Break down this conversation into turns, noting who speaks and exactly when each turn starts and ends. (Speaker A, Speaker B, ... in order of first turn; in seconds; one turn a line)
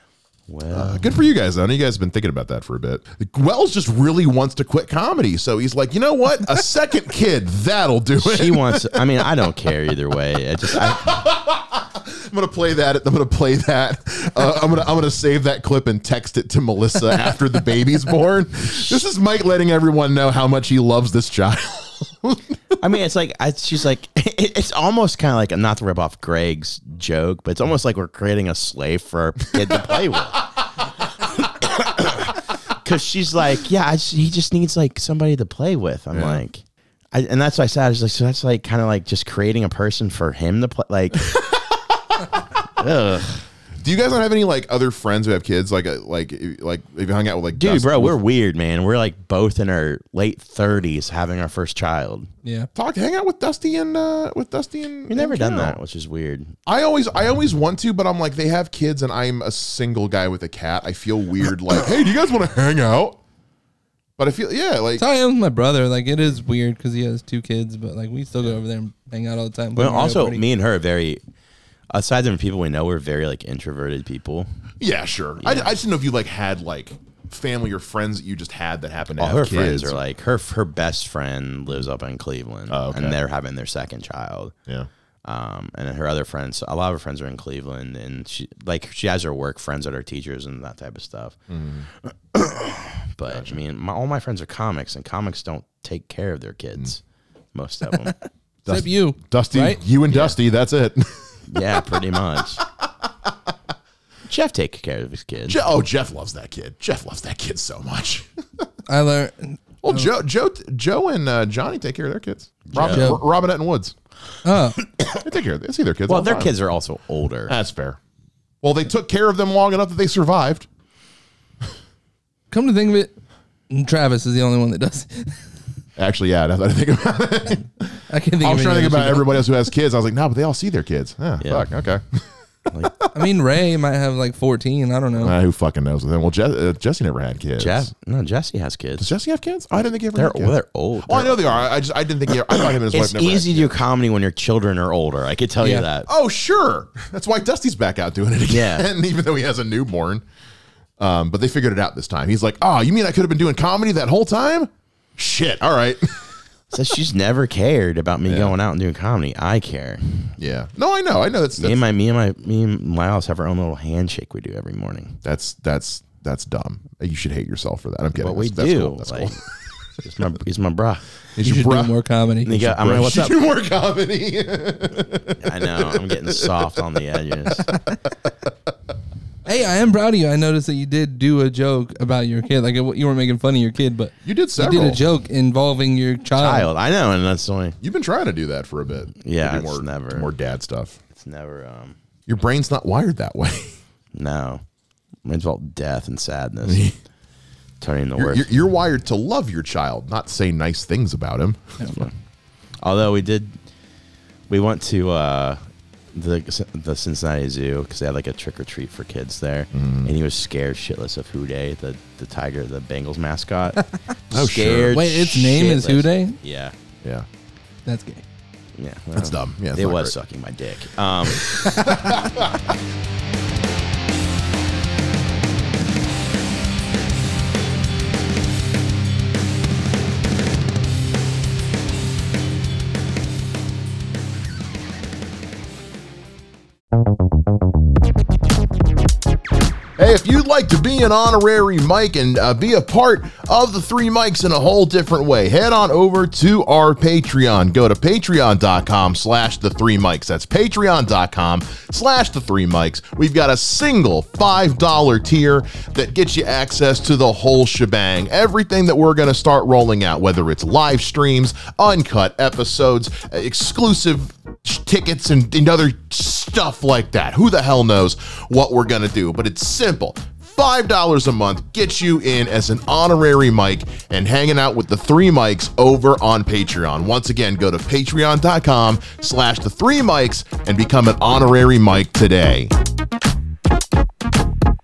Speaker A: 0.5-1.1
Speaker B: 0.7-9.7
Speaker A: 8.2-11.2
Speaker B: 10.6-22.6
Speaker A: 22.8-30.5
Speaker A: 31.4-36.6
Speaker B: 36.1-36.4
Speaker A: 37.1-41.3
Speaker B: 41.3-42.0
Speaker A: 42.8-43.4
Speaker B: 43.8-48.2
Speaker A: 47.6-52.3
Speaker B: 52.8-55.8
Speaker A: 55.1-56.5
Speaker B: 56.7-63.2
Speaker B: 64.2-65.0
Speaker C: 65.0-70.4
Speaker A: 69.8-71.2
Speaker A: 71.9-74.5
Speaker B: 74.8-80.0
Speaker A: 75.4-75.7
Speaker A: 79.2-84.5
Speaker B: 82.7-83.2
Speaker A: 85.2-91.4
Speaker B: 91.5-91.9
Speaker A: 92.0-97.0
Speaker B: 93.3-93.5
Speaker A: 97.5-98.2
Speaker B: 98.7-102.6
Speaker C: 98.7-99.8
Speaker A: 100.1-100.3
Speaker A: 101.5-102.7
Speaker A: 104.3-105.6
Speaker B: 105.5-108.6
Speaker C: 108.9-110.1
Speaker B: 109.8-114.0
Speaker A: 112.7-113.1
Speaker C: 112.8-113.2
Speaker C: 114.4-114.8
Speaker B: 115.2-116.5
Speaker A: 116.1-117.5
Speaker B: 117.5-118.0
Speaker B: 118.6-120.7
Speaker C: 122.5-123.1
Speaker C: 123.7-125.5
Speaker B: 126.0-133.1
Speaker C: 128.1-129.3
Speaker A: 131.4-131.7
Speaker A: 132.7-132.9
Speaker C: 133.1-135.3
Speaker B: 135.2-137.9
Speaker A: 137.6-139.1
Speaker B: 139.0-143.8
Speaker A: 140.2-141.7
Speaker A: 142.5-146.1
Speaker C: 145.6-145.9
Speaker B: 146.1-150.2
Speaker A: 148.5-148.9
Speaker B: 151.0-156.3
Speaker A: 156.7-160.4
Speaker B: 158.3-158.6
Speaker B: 160.4-161.8
Speaker A: 161.6-165.2
Speaker B: 165.2-169.4
Speaker A: 168.2-169.4
Speaker A: 170.0-171.1
Speaker B: 171.3-171.9
Speaker C: 171.4-172.7
Speaker A: 172.5-173.4
Speaker B: 172.6-176.8
Speaker A: 175.4-177.7
Speaker B: 177.6-178.5
Speaker C: 179.5-186.7
Speaker B: 184.2-185.0
Speaker A: 186.4-187.8
Speaker B: 187.8-191.0
Speaker A: 189.2-190.3
Speaker A: 191.1-192.0
Speaker B: 192.3-193.8
Speaker A: 194.1-194.6
Speaker A: 195.2-196.9
Speaker B: 196.6-196.9
Speaker A: 197.8-198.5
Speaker B: 198.2-202.1
Speaker A: 201.8-202.2
Speaker A: 202.8-203.6
Speaker A: 204.5-205.6
Speaker A: 206.1-216.8
Speaker B: 209.7-210.1
Speaker B: 214.3-215.0
Speaker C: 214.9-216.4
Speaker C: 217.9-218.2
Speaker A: 218.8-221.6
Speaker B: 219.2-220.1
Speaker C: 221.5-222.3
Speaker B: 221.9-222.3
Speaker B: 240.0-282.7